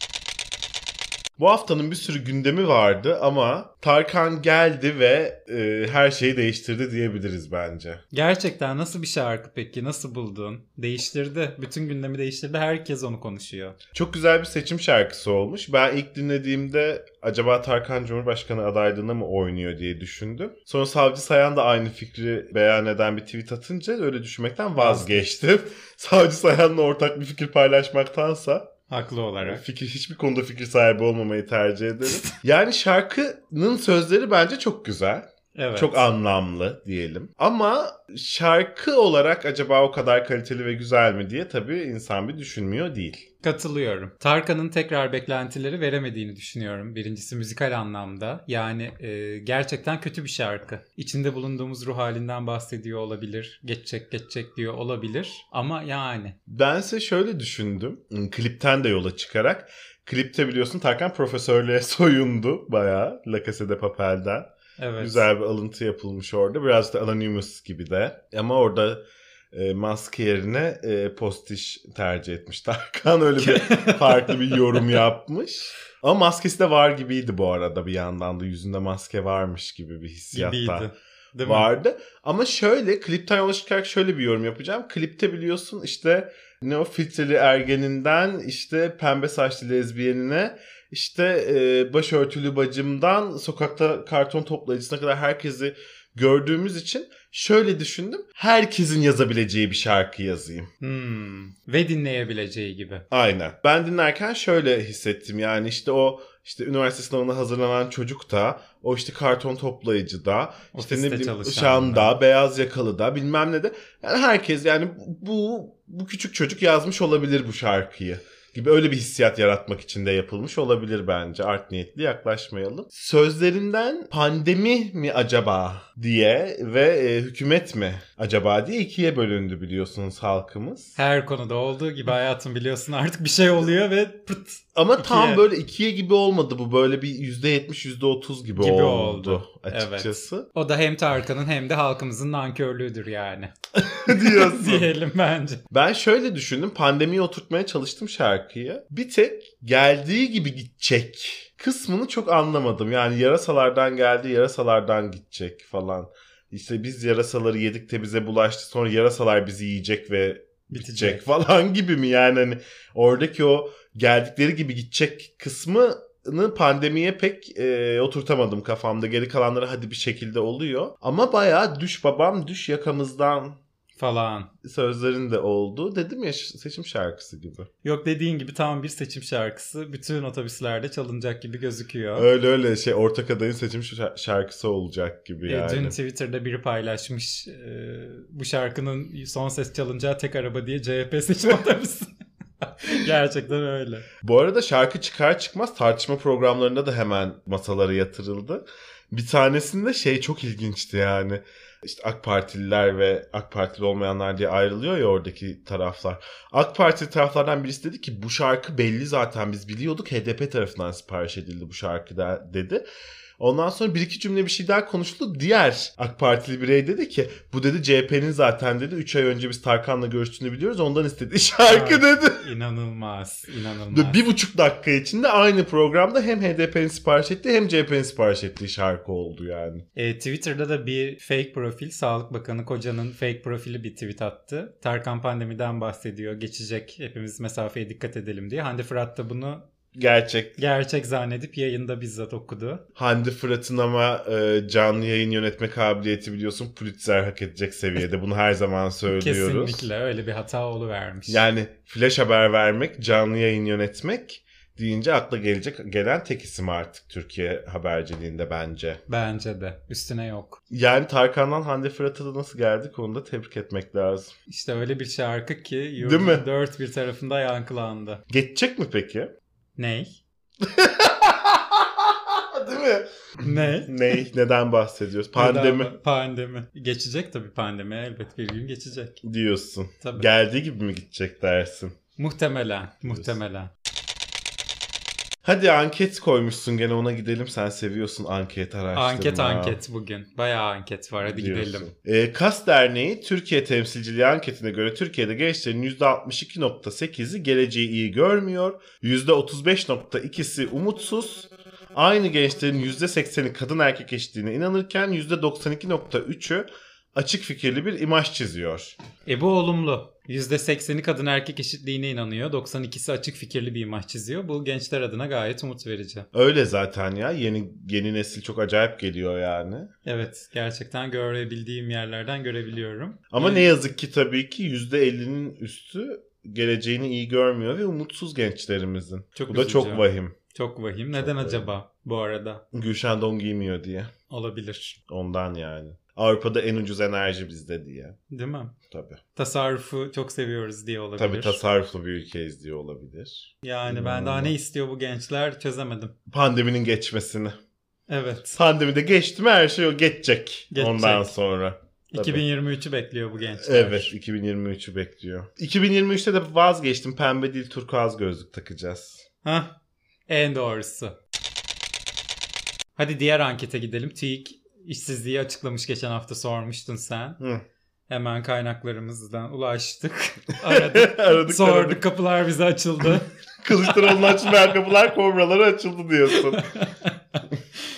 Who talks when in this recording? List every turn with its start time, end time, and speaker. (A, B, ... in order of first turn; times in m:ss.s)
0:01.4-0:08.0 A
0:08.1-0:13.8 B
0:13.9-0:28.7 A
0:24.8-0:25.3 B
0:28.9-0:29.6 B
0:29.4-0:43.3 A
0:35.6-0:36.0 B
0:43.4-0:56.4 B
0:56.5-1:20.9 A
1:04.8-1:05.2 B
1:13.4-1:15.0 B
1:20.3-1:21.7 B
1:21.4-1:40.7 A
1:40.8-1:43.1 B
1:43.1-2:11.0 A
1:50.7-1:52.2 B
2:11.0-2:15.4 B
2:14.8-2:20.5 A
2:18.6-2:23.5 B
2:23.8-2:24.9 A
2:24.0-2:25.6 B
2:25.7-2:53.6 A
2:40.7-2:41.2 B
2:54.0-2:54.5 B
2:54.6-2:57.7 A
2:57.8-3:02.3 B
3:02.2-3:06.0 A
3:05.5-3:14.1 B
3:14.2-3:32.8 A
3:33.4-3:42.4 A
3:41.7-3:44.2 B
3:43.9-3:49.9 A
3:50.0-3:59.7 B
4:00.0-4:00.6 A
4:00.6-4:02.8 B
4:03.0-4:09.9 A
4:09.1-4:11.4 B
4:11.3-4:19.0 A
4:19.1-4:20.6 B
4:20.7-4:24.3 A
4:24.5-4:28.2 B
4:26.0-4:26.4 A
4:28.3-4:29.3 A
4:29.8-4:30.2 B
4:30.6-4:35.9 A
4:33.4-4:33.9 B
4:35.4-4:39.2 B
4:39.2-4:42.0 A
4:40.0-4:40.3 B
4:42.2-4:43.7 B
4:43.0-4:43.4 A
4:45.4-4:49.8 A
4:49.0-4:51.9 B
4:51.2-5:09.0 A
5:09.3-5:16.3 B
5:16.3-5:19.9 A
5:20.1-5:23.7 B
5:23.3-5:30.4 A
5:29.4-5:32.6 B
5:31.2-5:31.7 A
5:32.7-5:34.1 A
5:34.3-5:35.0 B
5:35.1-5:38.2 A
5:38.3-5:38.7 B
5:38.9-5:39.2 A
5:39.4-5:41.6 B
5:41.2-5:44.6 A
5:43.6-5:46.1 B
5:46.3-5:47.6 A
5:48.1-5:48.5 B
5:48.5-5:52.4 A
5:50.7-5:51.3 B
5:52.1-5:54.1 B
5:53.6-5:59.2 A
5:59.4-5:59.7 B
6:00.3-6:01.2 B
6:03.0-6:07.4 B
6:08.1-6:13.3 B
6:10.6-6:12.0 A
6:13.6-6:16.7 A
6:16.4-6:17.4 B